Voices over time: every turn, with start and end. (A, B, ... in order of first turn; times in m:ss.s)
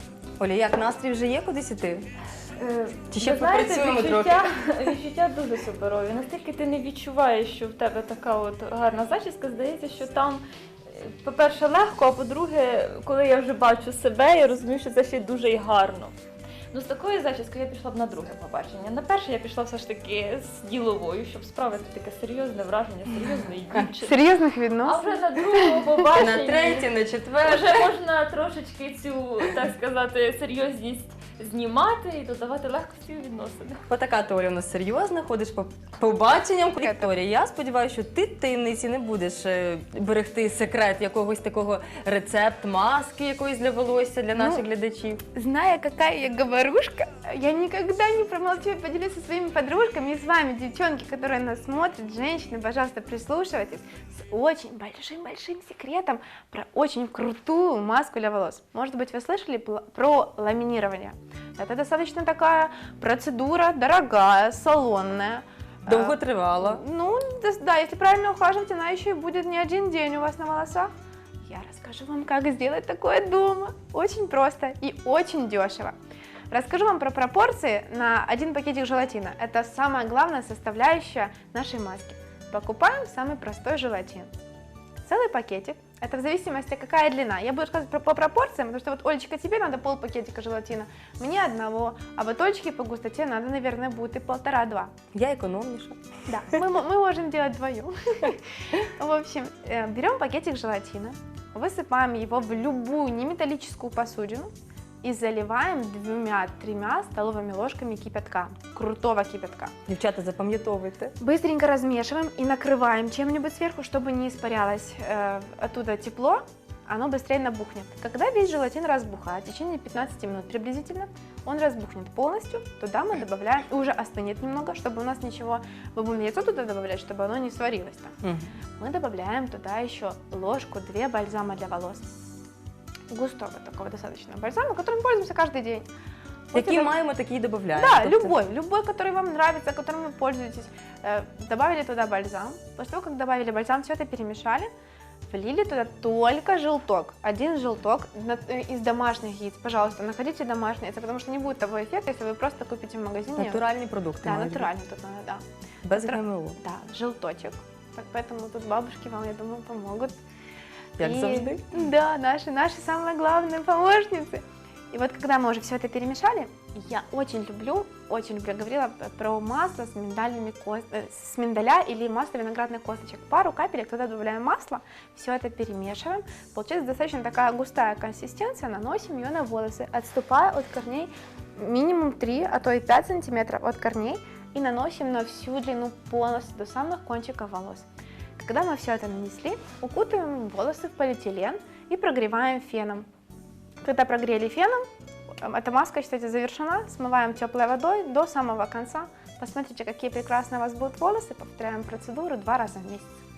0:00.4-0:02.1 A
0:02.6-0:16.1 B
0:03.1-0:04.5 A
0:16.7-0:24.2 B
0:24.0-0:25.0 C
0:24.8-0:26.9 B
0:25.6-0:26.0 C
0:26.2-0:27.9 A
0:27.4-0:33.8 B
0:33.9-0:45.2 A
0:36.8-0:37.1 C
0:44.4-0:44.6 C
0:45.3-1:10.9 C
1:05.9-1:06.8 A
1:11.5-1:16.0 C
1:16.5-1:24.3 C
1:25.0-1:34.9 C
1:35.1-1:36.0 A
1:36.3-1:44.5 C
1:45.0-1:49.7 C
1:49.9-1:51.2 A
1:51.2-2:08.2 C
2:08.2-2:08.5 A
2:08.8-2:12.0 C
2:13.1-2:15.9 C
2:16.5-2:16.9 C
2:16.5-2:18.4 A
2:17.8-2:24.7 C
2:25.3-2:33.6 C
2:33.4-2:34.7 A
2:34.2-2:40.2 C
2:35.8-2:36.6 A
2:41.0-2:41.7 A
2:41.0-3:13.1 C
3:13.8-3:14.9 C
3:15.4-3:23.2 C